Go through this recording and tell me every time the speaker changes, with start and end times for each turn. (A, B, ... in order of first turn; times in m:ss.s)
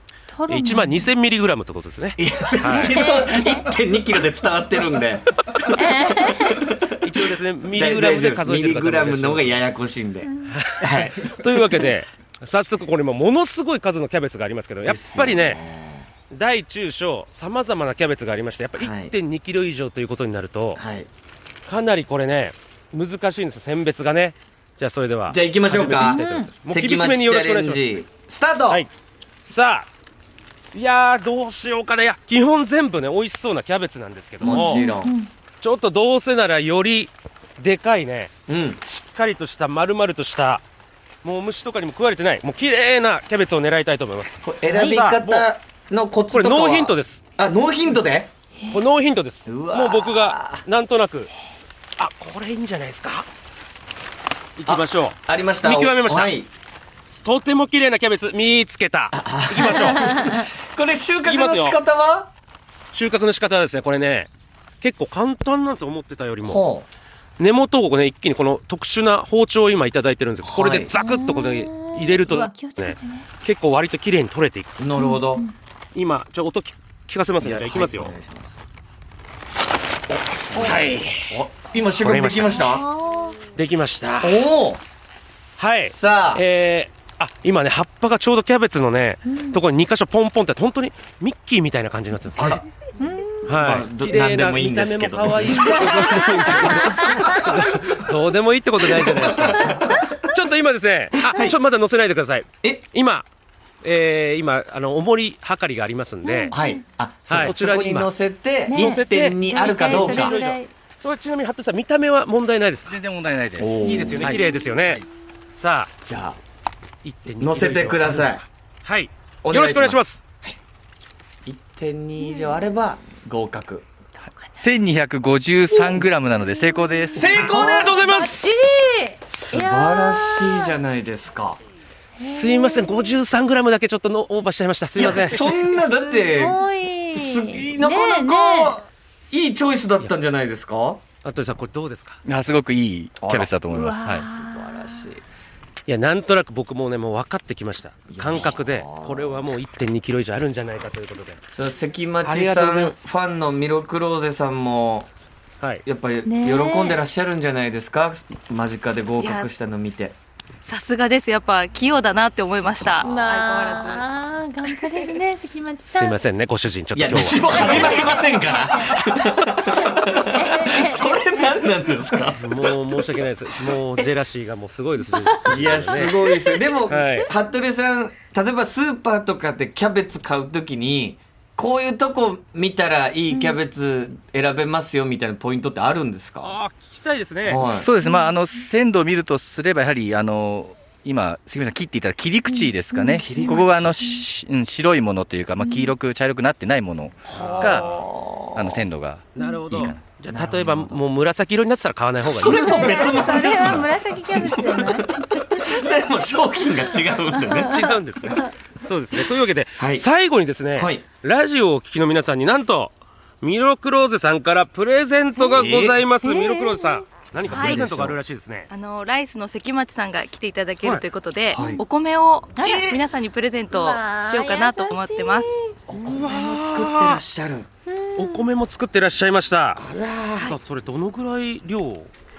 0:00.3-0:01.1 A
0:00.5-0:03.1 B
0:02.2-0:07.1 C
0:02.6-0:03.7 A
0:05.7-0:06.6 A
0:07.0-0:09.7 B
0:07.7-0:11.8 C
0:10.2-0:10.5 A
0:10.5-0:15.6 B
0:14.8-0:16.1 C
0:16.3-0:20.8 B
0:18.8-0:19.1 C
0:20.7-0:21.1 C
0:21.7-0:28.0 B
0:25.3-0:28.8 C
0:25.9-0:26.5 A
0:29.4-0:29.9 B
0:30.7-0:34.8 B
0:34.4-0:35.1 C
0:34.4-0:35.3 A
0:35.6-0:38.3 B
0:38.5-0:38.8 C
0:38.8-0:40.6 B
0:41.2-0:45.5 B
0:44.4-0:48.3 C
0:46.3-0:47.2 B
0:48.7-0:51.3 B
0:49.4-0:50.6 C
0:52.0-0:53.3 B
0:54.6-0:56.3 B
0:54.6-0:56.5 C
0:57.1-1:00.3 B
0:59.1-1:02.3 C
1:01.2-1:01.8 B
1:02.9-1:04.3 B
1:04.8-1:06.6 B
1:06.4-1:06.8 C
1:07.4-1:14.8 B
1:10.4-1:10.9 C
1:10.9-1:13.3 A
1:14.8-1:15.4 C
1:14.9-1:15.5 A
1:15.9-1:18.1 B
1:17.4-1:18.6 C
1:20.5-1:22.8 C
1:20.5-1:21.5 B
1:22.0-1:22.6 B
1:22.5-1:23.4 A
1:23.6-1:24.4 B
1:24.2-1:24.8 C
1:25.6-1:32.6 B
1:25.8-1:26.4 C
1:29.2-1:29.6 A
1:32.3-1:32.6 C
1:33.0-1:33.5 A
1:33.4-1:36.1 C
1:33.5-1:43.2 B
1:36.0-1:37.3 A
1:38.9-1:40.2 C
1:41.2-1:41.6 C
1:43.8-1:46.6 B
1:46.2-1:46.8 A
1:46.5-1:50.4 C
1:47.3-1:48.1 B
1:48.7-1:50.7 A
1:48.7-1:53.0 B
1:52.8-1:55.0 D
1:53.6-1:54.5 C
1:53.8-1:55.0 B
1:54.4-1:54.7 A
1:55.6-1:55.9 B
1:56.0-1:56.4 C
1:57.0-2:00.2 B
1:57.4-1:58.4 C
1:59.4-2:00.6 C
2:01.4-2:03.8 C
2:02.2-2:02.6 A
2:04.2-2:04.6 A
2:04.6-2:07.5 D
2:05.7-2:10.8 A
2:07.1-2:08.5 C
2:07.4-2:08.6 B
2:09.3-2:11.6 C
2:12.2-2:13.2 A
2:12.2-2:15.5 B
2:14.9-2:16.6 C
2:15.5-2:18.8 A
2:17.1-2:21.0 C
2:21.2-2:22.2 B
2:22.2-2:24.3 D
2:23.2-2:25.2 C
2:23.7-2:25.1 A
2:25.9-2:31.4 B
2:28.1-2:29.5 C
2:31.5-2:35.1 C
2:32.2-2:33.0 B
2:35.6-2:35.8 B
2:35.8-2:40.2 C
2:36.2-2:37.0 A
2:39.2-2:39.5 E
2:40.6-2:44.0 E
2:43.0-2:46.2 A
2:45.9-2:48.2 B
2:46.9-2:53.2 C
2:47.4-2:49.0 A
2:47.6-2:48.1 E
2:49.6-2:51.4 A
2:52.4-2:56.2 B
2:55.4-3:06.6 C
2:55.9-2:56.6 A
2:56.9-2:57.3 B
3:03.3-3:03.6 A
3:06.4-3:07.6 B
3:07.4-3:07.9 C
3:07.6-3:17.9 D
3:08.0-3:08.5 A
3:12.5-3:14.2 A
3:13.1-3:14.0 C
3:15.6-3:15.9 A
3:17.3-3:18.9 C
3:17.3-3:18.1 B
3:18.5-3:20.0 D
3:19.4-3:23.8 B
3:20.3-3:21.0 C
3:22.2-3:28.4 C
3:22.4-3:25.4 A
3:27.3-3:28.5 A
3:27.5-3:38.7 B
3:29.8-3:30.1 C
3:30.7-3:31.0 C
3:35.4-3:35.7 A
3:35.5-3:36.0 C
3:36.2-3:37.1 A
3:37.4-3:38.2 C
3:37.5-3:37.8 E
3:38.7-3:45.5 E
3:41.5-3:41.8 C
3:42.6-3:42.9 A
3:42.6-3:43.0 C
3:43.7-3:45.7 A
3:45.9-3:47.7 C
3:46.0-3:47.2 B
3:47.9-3:48.5 A
3:48.2-3:49.8 B
3:49.7-3:50.6 C
3:50.5-3:52.1 B